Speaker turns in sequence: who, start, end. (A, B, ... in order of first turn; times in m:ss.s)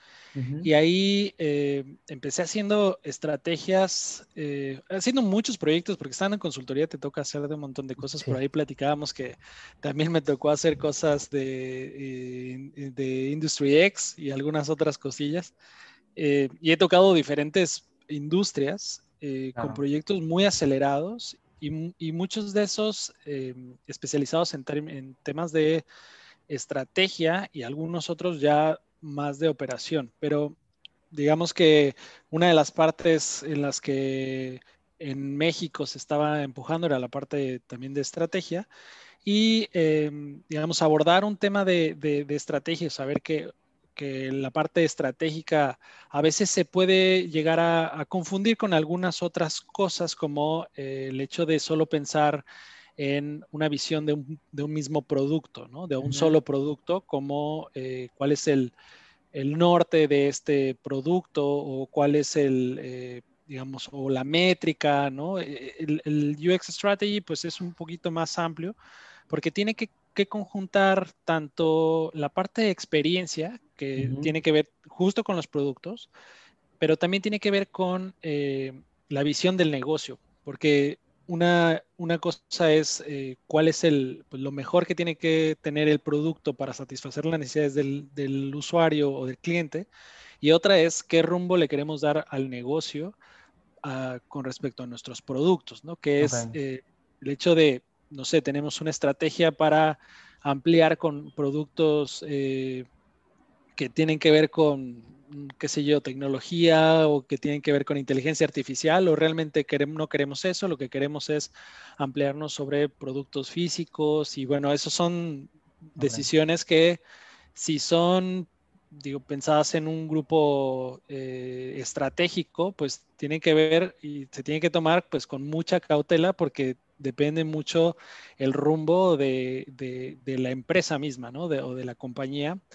0:00.3-0:00.7 A
0:00.6-0:15.5 B
0:08.0-0:08.4 A
0:16.2-0:25.8 B
0:26.5-0:30.6 B
0:31.1-0:38.7 B
0:39.2-0:52.4 B
0:53.0-0:58.7 B
0:56.0-0:56.4 A
0:59.3-1:08.8 B
1:09.3-1:16.1 B
1:14.0-1:14.3 A
1:16.8-1:29.9 B
1:30.4-1:33.2 B
1:33.8-1:42.9 B
1:36.2-1:36.6 A
1:43.8-1:57.0 B
1:56.0-1:56.3 A
1:57.5-2:12.6 B